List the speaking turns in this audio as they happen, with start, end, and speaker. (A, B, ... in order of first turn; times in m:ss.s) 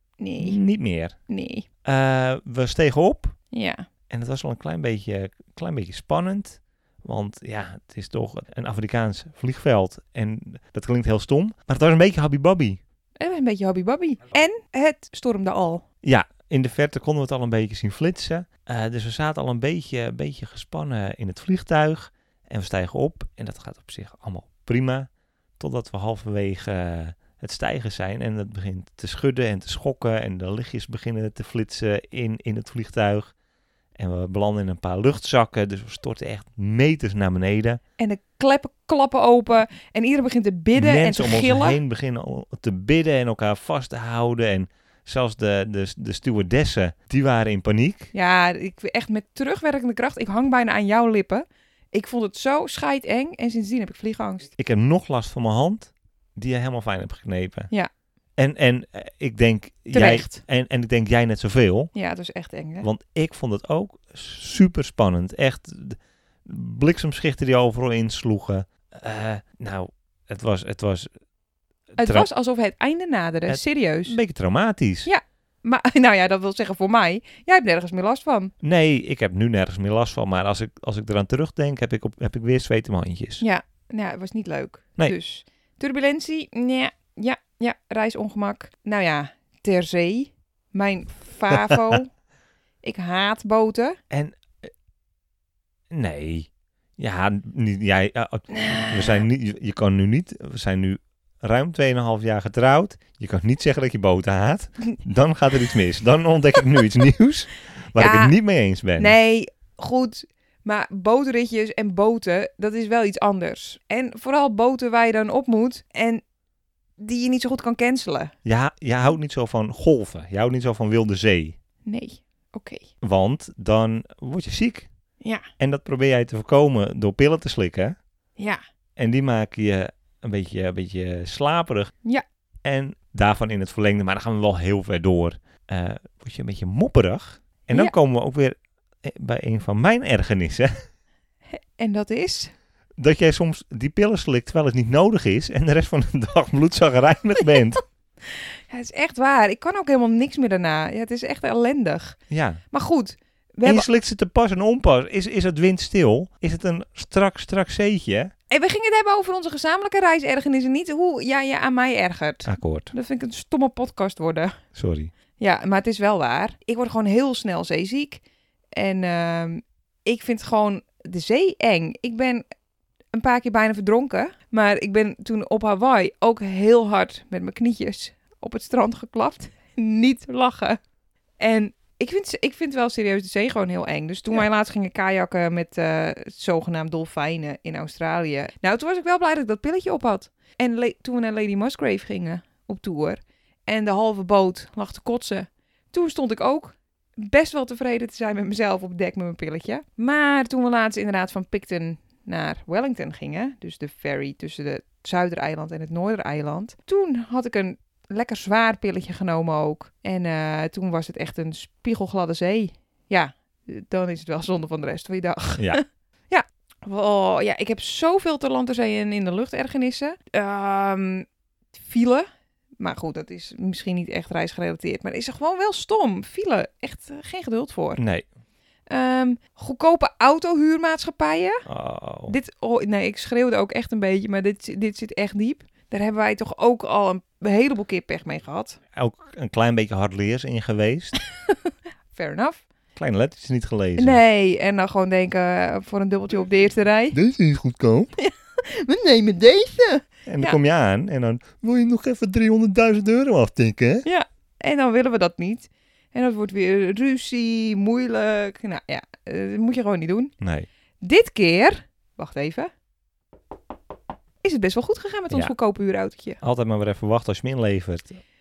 0:00.2-0:00.6 A
0:00.4-0:01.2 B
0:01.3-0:01.7 A
0:01.8-0:03.4 B
0:03.5-0:03.9 A
0:04.1-0:12.8 B
0:13.2-0:15.8 A
0:16.0-0:25.1 B
0:25.6-0:33.3 B
0:34.0-0:37.8 B
0:38.0-0:41.8 A
0:40.7-0:48.1 B
0:48.1-0:54.5 A
0:54.6-0:57.7 B
0:58.4-1:01.9 B
0:59.9-1:00.4 A
1:02.0-1:02.9 A
1:02.8-1:11.1 B
1:12.0-1:14.2 A
1:12.0-1:12.3 B
1:13.5-1:15.1 B
1:15.1-1:18.5 A
1:18.6-1:23.4 B
1:23.4-1:32.1 A
1:31.5-1:32.0 B
1:32.8-1:34.0 A
1:34.1-1:34.7 B
1:35.9-1:49.2 B
1:38.5-1:39.2 A
1:48.0-1:48.4 A
1:49.0-1:56.2 A
1:57.0-1:58.3 A
1:58.4-2:01.6 B
2:01.8-2:02.9 A
2:03.0-2:04.9 B
2:05.6-2:08.0 B
2:09.0-2:11.9 B
2:12.6-2:20.7 B
2:21.5-2:22.5 A
2:23.0-2:27.8 B
2:28.3-2:32.2 A
2:32.3-2:32.6 B
2:32.7-2:33.9 A
2:33.6-2:38.3 B
2:38.5-2:44.6 A
2:42.4-2:42.9 B
2:44.8-2:45.1 B
2:45.4-2:48.2 A
2:48.8-2:52.4 A
2:53.1-3:00.8 A
3:01.4-3:41.3 A
3:41.8-3:42.3 A
3:42.8-3:48.0 A
3:48.0-3:48.2 B
3:48.9-3:51.6 A
3:51.7-3:52.4 B
3:52.3-3:58.8 A
3:58.9-4:01.2 B
4:02.1-4:02.6 A
4:03.0-4:04.2 B
4:04.0-4:07.2 A
4:07.1-4:08.1 B
4:08.2-4:10.6 A
4:10.3-4:14.1 B
4:14.0-4:20.3 A
4:20.4-4:20.7 B
4:21.0-4:22.7 A
4:24.4-4:26.4 A
4:26.4-4:28.2 B